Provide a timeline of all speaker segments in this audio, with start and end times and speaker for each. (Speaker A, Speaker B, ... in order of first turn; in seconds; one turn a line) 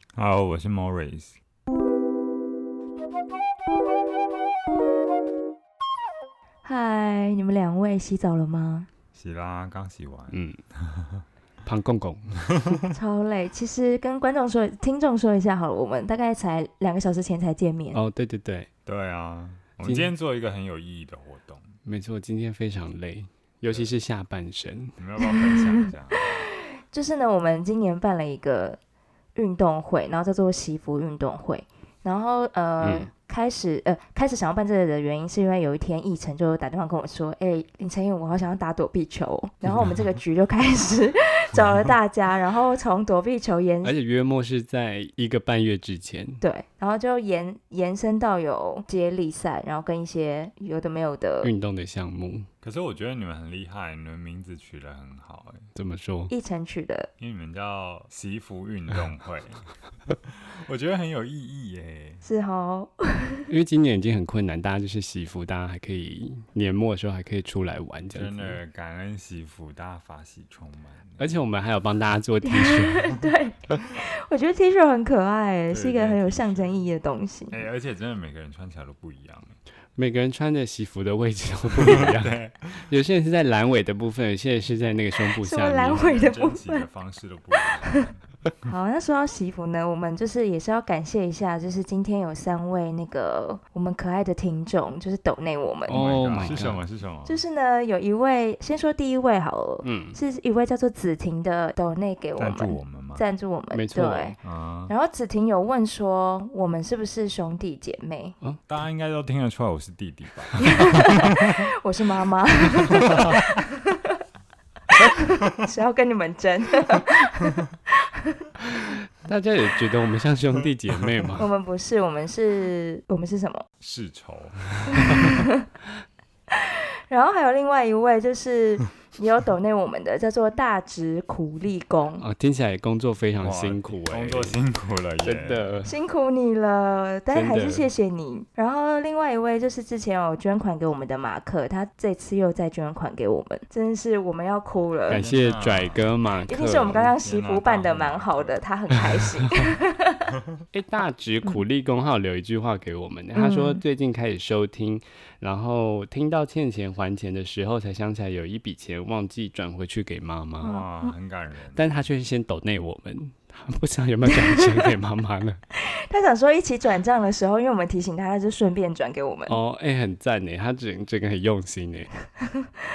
Speaker A: 0.1-1.4
Speaker B: 6.6-8.9
Speaker A: 9.1-11.2
Speaker C: 10.3-10.6
Speaker C: 11.7-12.6
Speaker B: 12.9-18.0
Speaker C: 17.9-18.7
Speaker A: 18.9-21.7
Speaker C: 19.8-20.1
Speaker C: 21.9-25.0
Speaker A: 25.0-26.4
Speaker B: 25.2-28.8
Speaker B: 29.4-43.9
Speaker C: 32.8-33.1
Speaker C: 43.8-46.4
Speaker B: 46.4-51.5
Speaker C: 51.4-52.5
Speaker A: 52.6-55.7
Speaker C: 55.8-56.3
Speaker B: 56.3-57.1
Speaker A: 57.2-62.2
Speaker B: 62.2-63.5
Speaker C: 63.5-68.6
Speaker A: 68.1-71.5
Speaker C: 71.2-73.2
Speaker B: 72.5-77.6
Speaker A: 75.7-76.8
Speaker A: 77.5-79.6
Speaker C: 80.0-86.1
Speaker A: 81.8-82.9
Speaker B: 85.4-86.9
Speaker A: 86.0-88.2
Speaker B: 88.7-96.6
Speaker C: 95.9-96.8
Speaker A: 95.9-97.4
Speaker B: 97.3-104.4
Speaker C: 99.8-100.2
Speaker A: 102.4-103.2
Speaker C: 103.7-104.4
Speaker A: 104.4-104.9
Speaker B: 104.9-108.4
Speaker A: 108.7-111.6
Speaker B: 110.6-114.2
Speaker A: 113.0-113.5
Speaker B: 115.0-118.5
Speaker C: 118.7-121.5
Speaker A: 121.0-121.3
Speaker B: 121.4-123.7
Speaker A: 123.8-125.4
Speaker C: 124.9-125.2
Speaker B: 124.9-125.7
Speaker B: 126.5-132.2
Speaker C: 132.2-134.6
Speaker A: 133.4-135.8
Speaker C: 135.2-135.9
Speaker B: 135.8-145.3
Speaker C: 137.3-137.9
Speaker A: 145.1-146.1
Speaker C: 145.1-147.0
Speaker B: 146.5-150.3
Speaker A: 146.7-148.6
Speaker C: 150.7-160.7
Speaker B: 153.3-153.8
Speaker A: 160.6-162.1
Speaker B: 160.6-161.2
Speaker C: 161.8-165.6
Speaker B: 165.8-169.6
Speaker C: 169.5-172.1